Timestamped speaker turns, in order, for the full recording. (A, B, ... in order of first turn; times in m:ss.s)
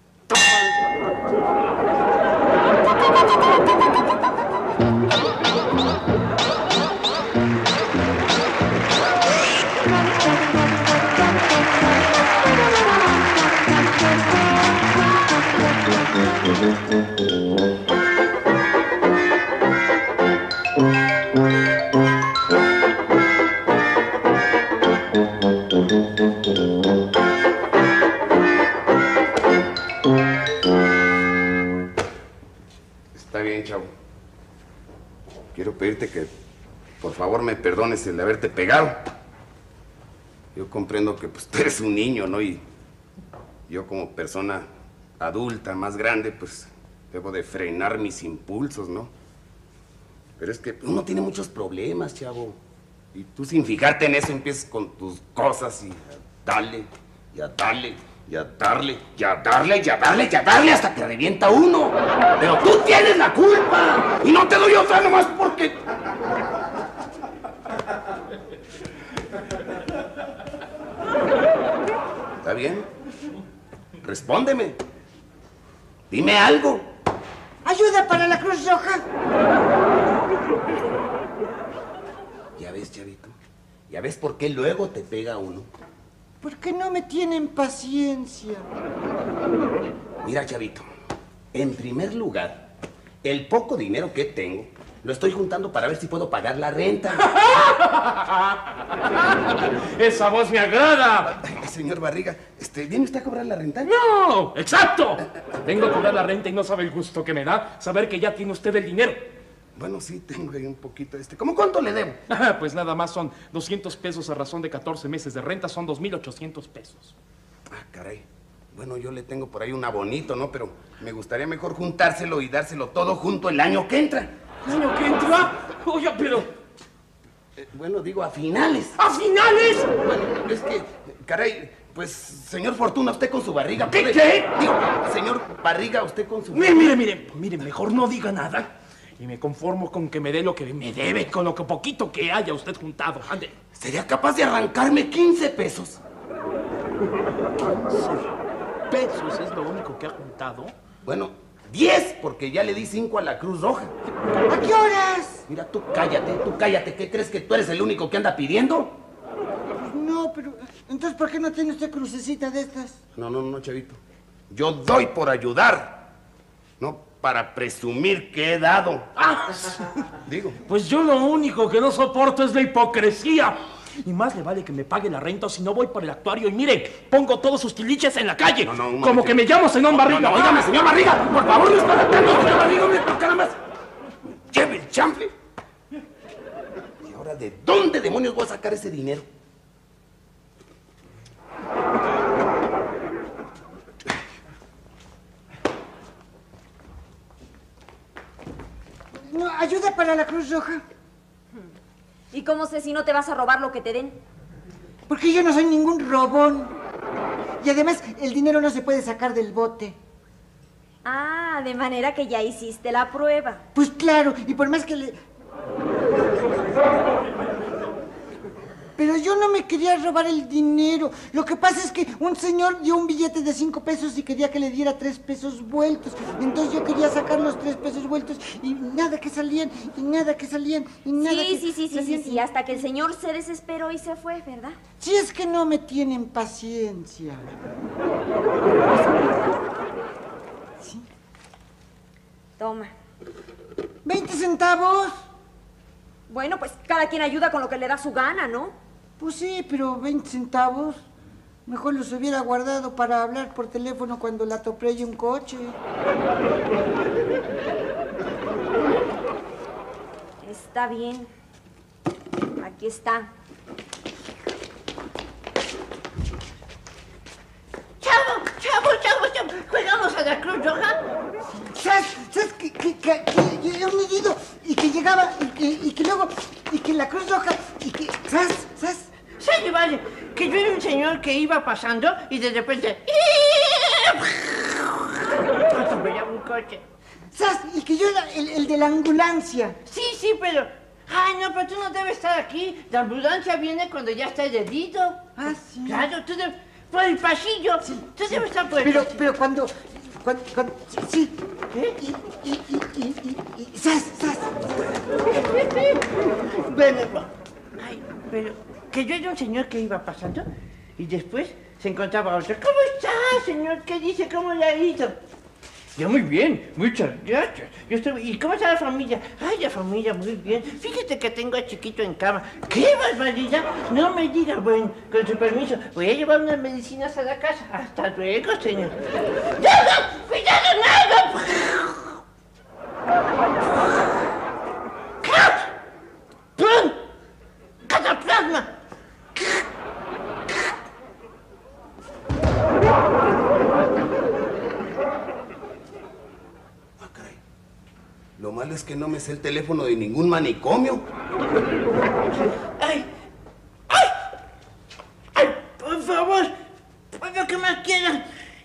0:00.3-0:00.6 A
0:33.1-0:33.9 A
0:35.5-0:36.3 A
0:37.0-0:39.0 A
0:40.5-0:42.6 A
0:43.7-0:44.6 A
0:45.2-0:49.1 A
0:50.4-0:52.6 A
0:53.1-1:05.8 A
1:12.4-1:12.9 A
1:14.0-1:14.8 A
1:16.1-1:16.8 A
1:17.6-1:19.0 B
1:22.6-1:23.4 A
1:23.9-1:25.7 A
1:26.4-1:28.7 B
1:30.2-1:30.8 A
1:31.5-1:32.7 A
1:33.2-1:37.2 A
1:37.2-1:38.6 C
1:39.2-1:41.3 C
1:41.2-1:43.9 A
1:43.8-1:49.2 C
1:49.8-1:52.2 A
1:52.3-1:57.1 C
1:57.7-2:04.3 A
2:04.6-2:06.5 C
2:07.6-2:09.0 A
2:09.0-2:09.9 C
2:10.0-2:16.8 A
2:13.9-2:14.5 C
2:16.5-2:23.5 C
2:23.8-2:26.0 A
2:27.7-2:28.3 C
2:28.9-2:30.7 C
2:31.0-2:33.9 A
2:34.5-2:35.4 B
2:35.5-2:38.9 A
2:39.8-2:43.0 B
2:43.2-2:44.0 A
2:44.5-2:46.1 A
2:46.8-2:49.1 A
2:49.2-2:49.9 C
2:50.2-2:50.6 A
2:50.6-3:00.8 C
2:58.6-3:03.5 A
3:04.5-3:05.3 A
3:07.0-3:09.3 A
3:19.3-3:20.8 B
3:22.3-3:24.2 D
3:25.1-3:26.7 B
3:27.6-3:30.0 B
3:31.0-3:33.6 D
3:33.7-3:35.2 B
3:39.0-3:52.4 B
3:51.2-3:54.8 D
3:55.0-3:57.4 B
4:02.6-4:02.9 D
4:04.0-4:05.1 B
4:06.3-4:08.7 D
4:09.2-4:11.0 B
4:11.6-4:15.8 B
4:20.4-4:21.3 D
4:22.6-4:23.3 D
4:28.0-4:31.0 E
4:31.5-4:39.1 B
4:39.4-4:46.8 E
4:47.3-4:49.8 B
4:49.8-4:59.2 E
4:55.4-4:56.1 B
4:57.8-4:58.1 B
4:58.8-5:01.3 B
5:01.7-5:02.0 E
5:02.0-5:04.8 B
5:05.3-5:06.0 E
5:06.5-5:15.2 E
5:16.0-5:29.0 E
5:29.6-5:32.2 E
5:35.2-5:35.7 E
5:36.6-5:37.0 E
5:37.8-5:38.7 E
5:47.0-5:47.4 A
5:48.4-5:51.0 A
5:52.7-5:53.1 E
5:53.9-5:54.2 E
5:55.3-5:56.5 E
5:57.1-5:58.2 E